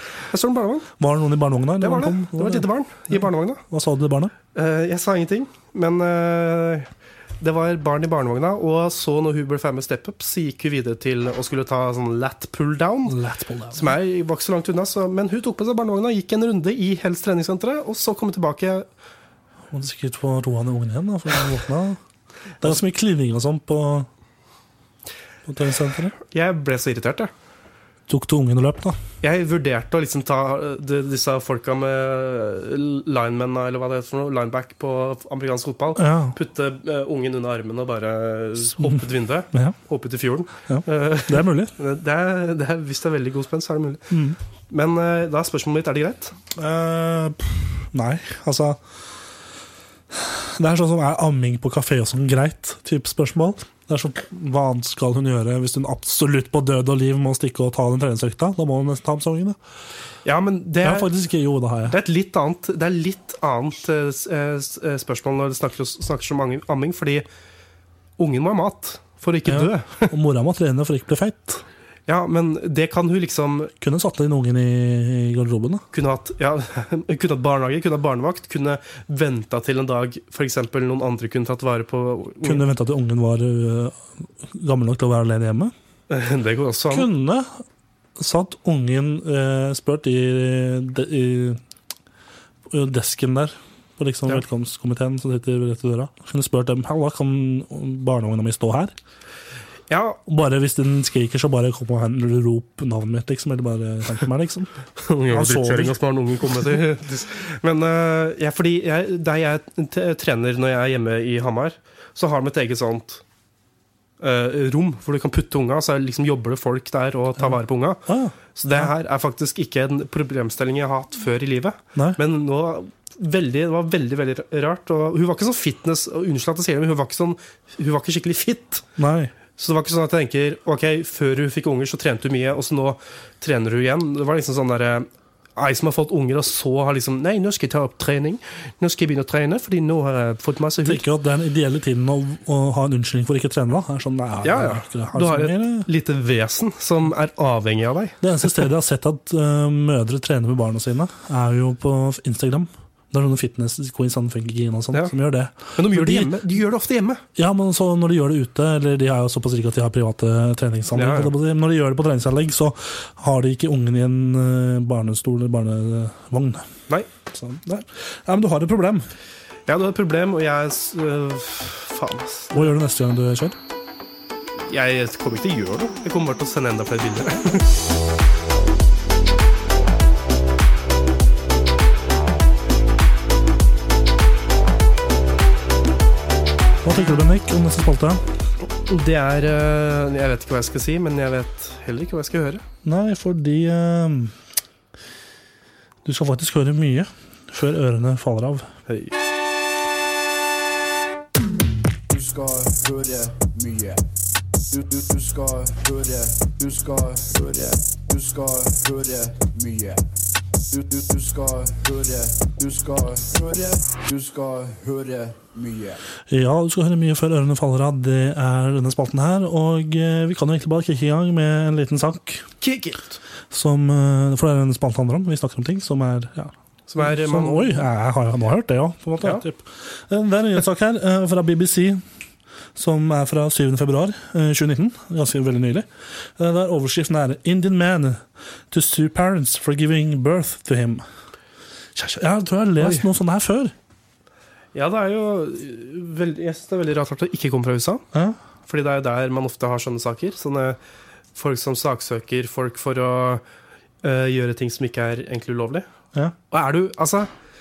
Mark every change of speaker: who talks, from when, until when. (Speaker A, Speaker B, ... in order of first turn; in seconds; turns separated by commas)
Speaker A: 0.3-0.9, Speaker B: 1.0-4.3, Speaker A: 1.8-3.6, Speaker A: 4.5-6.9, Speaker A: 7.4-13.2, Speaker B: 13.1-13.9, Speaker A: 13.7-18.9, Speaker B: 19.7-22.0, Speaker B: 22.6-24.1, Speaker B: 25.4-26.1, Speaker A: 26.2-27.3, Speaker B: 28.1-29.0, Speaker A: 29.2-44.1, Speaker B: 36.0-36.4, Speaker B: 39.5-39.8, Speaker B: 40.7-41.7, Speaker B: 44.1-44.4, Speaker A: 44.7-46.4, Speaker B: 46.5-48.8, Speaker B: 50.1-59.5, Speaker A: 60.2-61.1, Speaker B: 60.8-62.0, Speaker A: 61.9-67.2, Speaker A: 68.2-70.1, Speaker B: 69.5-71.6, Speaker A: 72.1-73.7, Speaker B: 73.8-75.8, Speaker A: 75.9-82.6, Speaker B: 82.4-85.7, Speaker A: 86.1-87.1, Speaker B: 86.9-87.6, Speaker B: 88.2-91.6, Speaker B: 92.7-98.9, Speaker A: 99.9-100.2, Speaker B: 100.2-104.7, Speaker A: 105.0-113.2, Speaker B: 105.3-106.0, Speaker A: 114.2-118.0, Speaker B: 118.0-118.9, Speaker A: 118.5-128.8, Speaker B: 129.0-129.3, Speaker A: 129.6-141.0, Speaker B: 140.8-145.9, Speaker A: 144.4-148.2, Speaker B: 148.2-156.3, Speaker A: 155.7-157.2, Speaker B: 157.3-166.7, Speaker A: 160.9-161.3, Speaker B: 167.2-169.1, Speaker A: 169.7-172.7, Speaker B: 172.5-173.6, Speaker A: 174.7-177.7, Speaker B: 186.8-188.2, Speaker A: 188.8-192.6, Speaker B: 192.8-194.3, Speaker B: 196.0-198.7, Speaker A: 198.9-199.1, Speaker C: 202.1-204.0, Speaker C: 204.7-210.0, Speaker C: 210.7-216.0, Speaker B: 216.3-222.5, Speaker A: 222.6-223.2, Speaker B: 223.5-232.0, Speaker A: 226.9-227.8, Speaker B: 232.7-241.0, Speaker B: 241.9-243.7, Speaker A: 242.8-243.0, Speaker A: 244.7-248.0, Speaker A: 248.7-250.8, Speaker A: 251.3-253.4, Speaker A: 254.0-255.9, Speaker A: 256.5-257.3